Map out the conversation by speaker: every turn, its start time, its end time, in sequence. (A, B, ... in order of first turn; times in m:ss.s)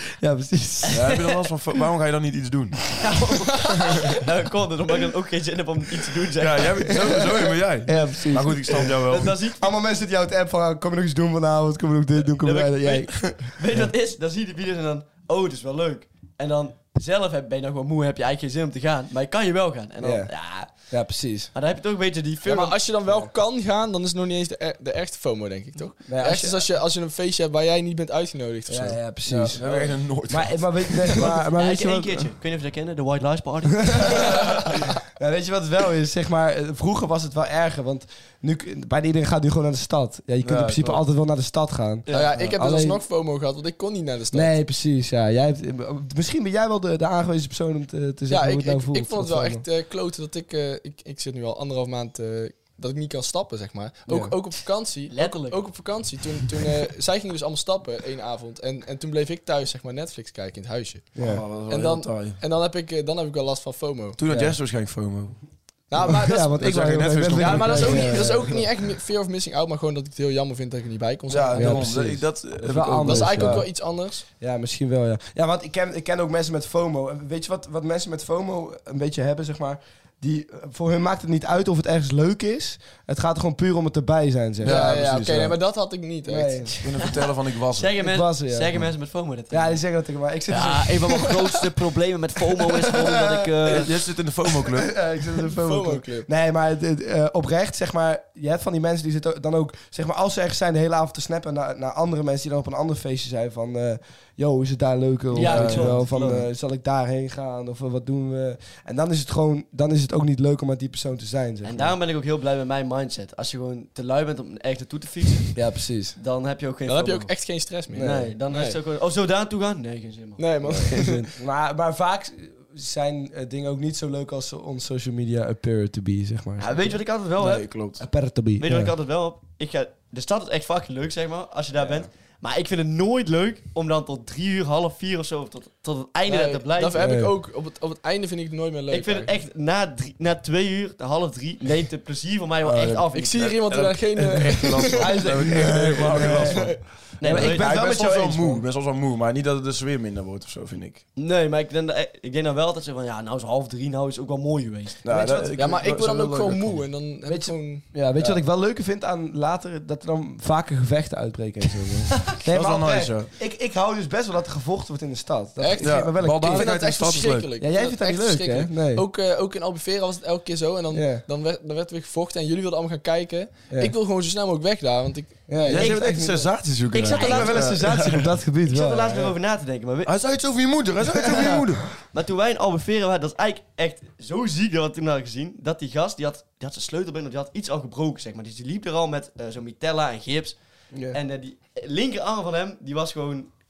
0:00.1-0:01.2 A
0:00.8-0:01.1 B
0:00.9-0:03.0 C
0:03.0-0:07.2 B
0:06.4-0:09.3 C
0:06.9-0:09.0 A
0:08.9-0:09.7 B
0:09.6-0:13.4 A
0:12.4-0:20.9 B
0:20.0-0:21.5 A
0:21.5-0:22.8 B
0:22.4-0:29.0 D
0:26.0-0:26.6 A
0:28.7-0:32.3 A
0:29.2-0:31.4 C
0:31.6-0:34.4 B
0:33.9-0:43.0 A
0:40.4-0:41.0 C
0:42.0-0:42.4 B
0:42.1-0:44.5 D
0:44.3-0:49.6 A
0:48.3-1:01.1 D
0:54.1-0:54.3 A
0:55.1-0:55.6 B
1:01.2-1:01.4 A
1:01.2-1:02.4 C
1:01.7-1:04.2 D
1:04.2-1:05.4 C
1:04.3-1:04.6 A
1:05.9-1:06.6 D
1:06.0-1:08.3 C
1:06.0-1:08.7 A
1:07.3-1:11.9 D
1:11.3-1:13.7 C
1:11.5-1:13.7 A
1:13.0-1:14.2 D
1:14.4-1:25.1 A
1:24.6-1:25.5 C
1:24.6-1:26.6 D
1:26.2-1:26.8 A
1:26.8-1:27.9 C
1:27.0-1:29.8 B
1:28.0-1:28.8 A
1:29.5-1:31.4 A
1:30.5-1:33.9 B
1:33.0-1:33.9 A
1:33.7-1:34.9 C
1:34.5-1:51.9 A
1:35.5-1:36.3 D
1:45.3-1:46.4 B
1:45.4-1:46.3 C
1:51.6-1:55.6 B
1:55.5-1:56.2 A
1:56.2-1:57.3 B
1:56.8-1:58.8 D
1:57.9-1:58.3 A
1:57.9-2:00.9 B
2:00.4-2:01.2 D
2:00.7-2:07.0 A
2:06.6-2:07.7 B
2:07.4-2:08.0 C
2:08.0-2:08.9 A
2:08.6-2:17.0 B
2:16.3-2:19.3 D
2:16.9-2:17.3 A
2:18.9-2:23.6 B
2:22.6-2:31.0 C
2:23.1-2:26.8 D
2:24.9-2:28.6 A
2:27.2-2:27.7 B
2:31.2-2:35.0 B
2:35.0-2:36.9 C
2:35.0-2:35.6 A
2:35.6-2:38.4 D
2:37.2-2:46.7 A
2:42.5-2:43.3 C
2:45.6-2:56.0 D
2:45.8-2:47.5 C
2:47.6-2:49.0 A
2:50.9-2:51.2 A
2:55.5-2:59.3 A
2:55.7-2:58.3 C
2:56.9-2:57.7 B
2:58.7-3:00.1 B
3:00.0-3:01.9 C
3:01.1-3:01.6 A
3:02.1-3:10.6 B
3:10.9-3:11.2 A
3:11.1-3:13.5 B